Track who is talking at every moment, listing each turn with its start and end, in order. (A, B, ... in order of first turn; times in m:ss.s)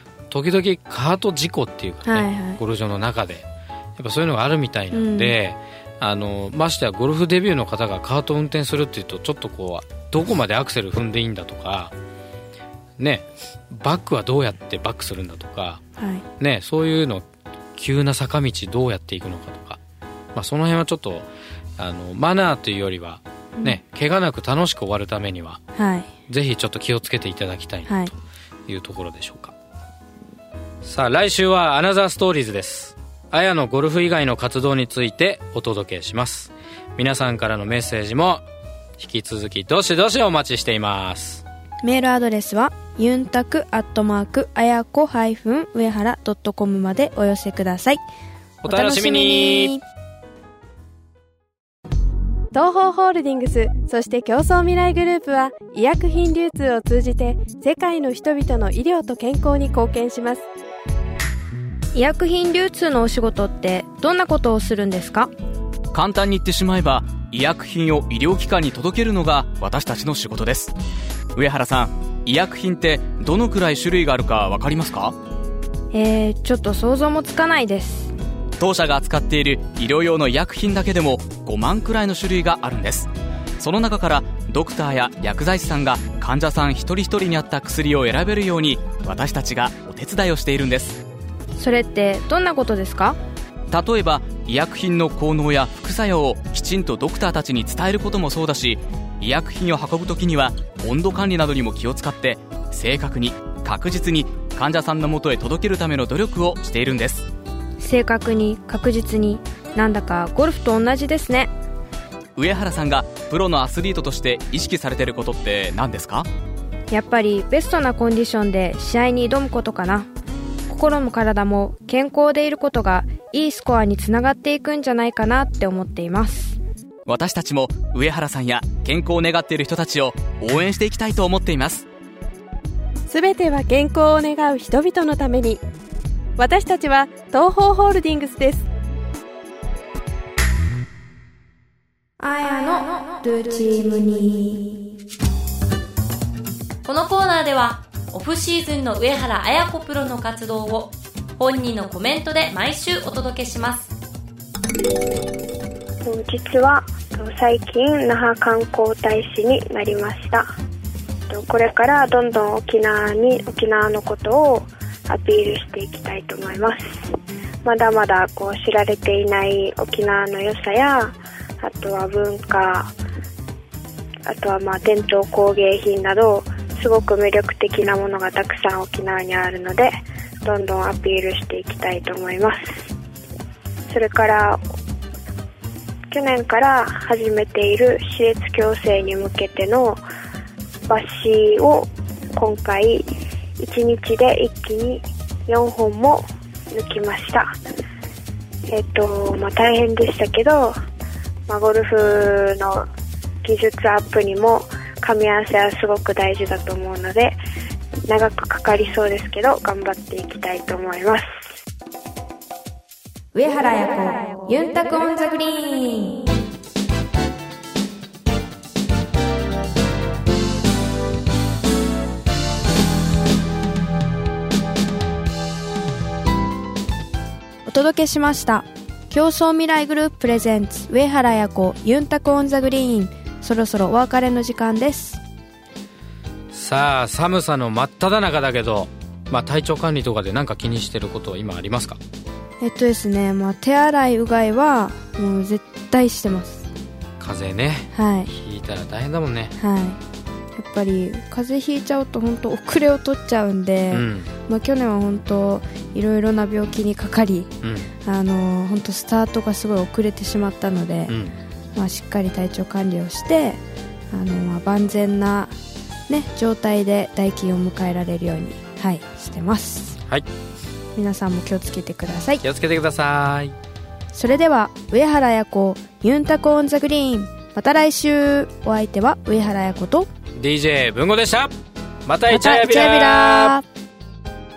0:00.3-0:03.4 A
0:02.0-0:02.6 B
0:04.0-0:11.9 A
0:04.9-0:05.3 B
0:13.0-0:15.8 A
0:16.0-0:16.2 B
0:16.4-0:19.8 A
0:20.3-0:25.6 A
0:25.8-0:26.1 B
0:26.3-0:28.1 A
0:27.9-0:28.1 B
0:28.7-0:29.5 A
0:30.8-0:38.4 A
0:39.0-0:41.4 A
0:41.8-0:48.0 B
0:48.6-0:49.7 A
0:48.6-0:49.8 B
0:52.5-1:00.4 C
1:01.9-1:05.3 B
1:05.9-1:10.7 D
1:11.3-1:15.1 D
1:15.9-1:18.1 B
1:18.6-1:31.0 D
1:31.6-1:33.2 B
1:33.7-1:47.3 D
1:47.8-1:51.5 B
1:52.4-1:56.3 D
1:56.9-2:00.1 B
2:00.7-2:06.6 B
2:07.0-2:11.8 D
2:13.1-2:15.6 C
2:16.4-2:18.7 C
2:22.2-2:24.9 B
2:26.8-2:33.9 E
2:36.0-2:40.5 F
2:41.3-2:47.0 F
2:47.6-2:52.9 F
2:54.3-3:02.9 F
3:03.9-3:04.6 F
3:06.1-3:10.0 F
3:10.9-3:13.0 F
3:13.6-3:17.5 F
3:18.7-3:20.7 F
3:21.5-3:22.8 F
3:23.4-3:27.4 F
3:28.1-3:31.3 F
3:33.3-3:36.2 B
3:47.6-3:55.2 B
3:56.5-4:02.0 A
4:02.6-4:06.7 B
4:07.2-4:09.6 A
4:07.9-4:08.3 B
4:09.6-4:10.0 B
4:10.6-4:17.5 B
4:13.9-4:14.3 A
4:17.6-4:17.9 A
4:18.0-4:21.1 B
4:21.1-4:21.4 A
4:21.8-4:23.6 B
4:24.1-4:25.5 B
4:26.1-4:30.0 B
4:30.0-4:30.3 A
4:30.9-4:32.4 B
4:32.4-4:33.5 A
4:34.1-4:40.1 B
4:40.3-4:41.5 A
4:42.0-4:43.6 A
4:42.3-4:43.6 B